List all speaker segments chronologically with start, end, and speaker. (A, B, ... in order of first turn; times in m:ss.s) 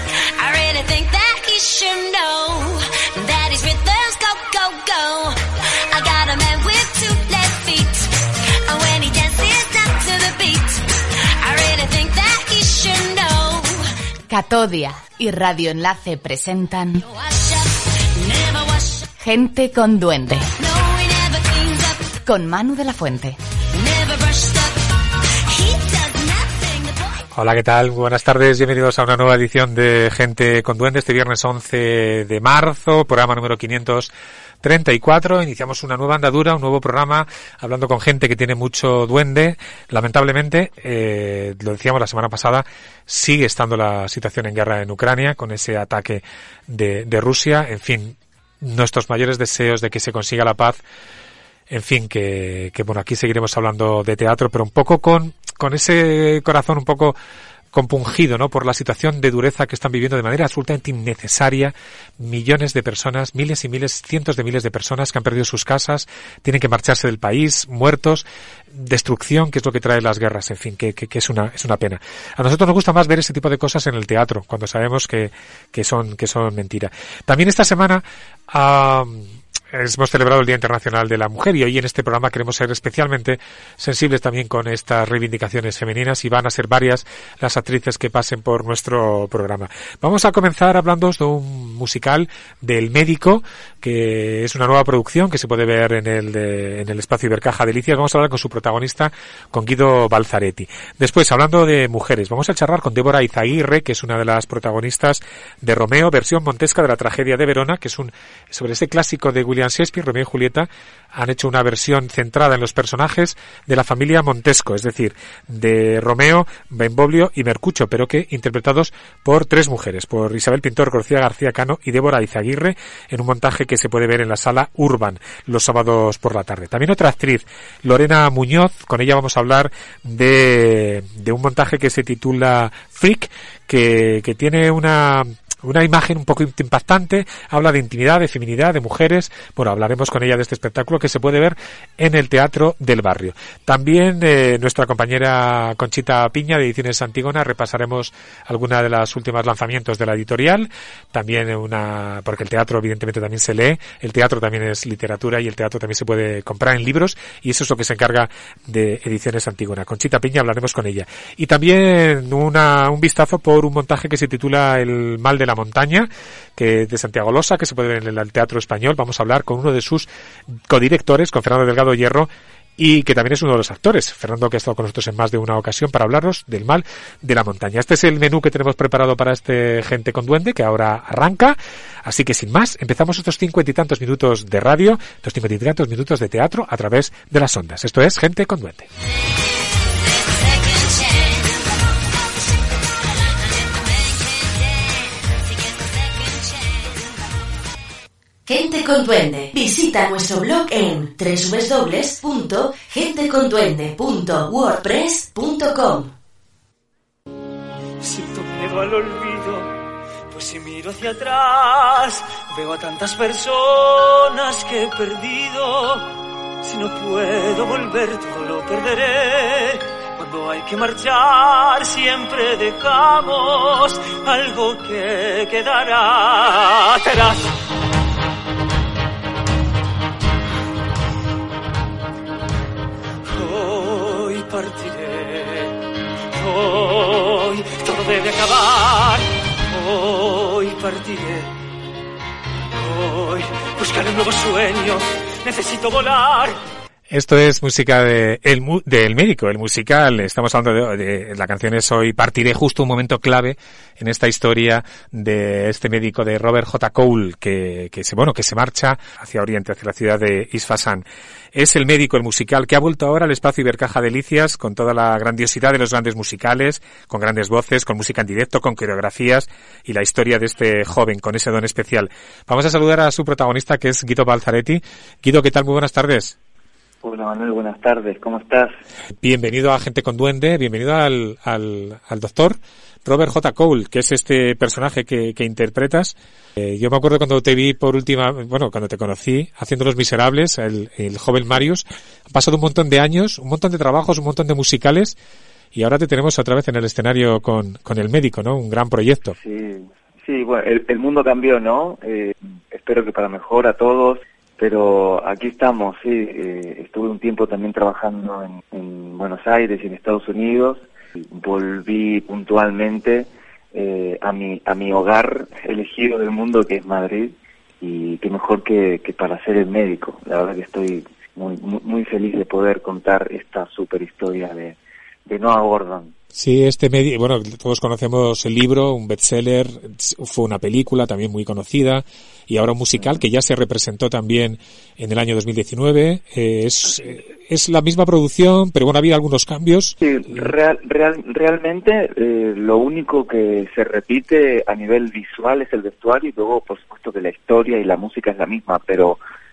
0:00.4-0:05.4 A
0:05.9-0:10.8 A
0:11.4-0:13.8 A
0:14.3-0:17.0 B
0:17.0-0:19.1 A
0:19.2-0:20.5 B
0:20.6-0:22.2 A
0:22.2-0:23.4 B
0:23.7-0:24.8 A
0:25.5-0:27.2 A
0:27.3-0:34.1 C
0:34.6-0:50.8 C
0:51.7-0:57.2 C
0:57.7-3:08.9 C
3:09.9-3:11.6 A
3:13.2-3:17.1 A
3:18.4-3:26.1 D
3:28.0-3:29.7 E
3:30.3-3:36.0 E
3:36.6-3:47.5 E
3:53.3-3:55.8 E
3:56.3-4:01.5 E
4:02.8-4:06.6 E
4:07.1-4:36.4 C
4:37.0-4:38.7 F
4:39.2-4:55.2 C
4:55.7-4:59.4 C
4:59.3-5:26.1 F
5:26.3-5:40.0 C
5:40.0-5:49.2 F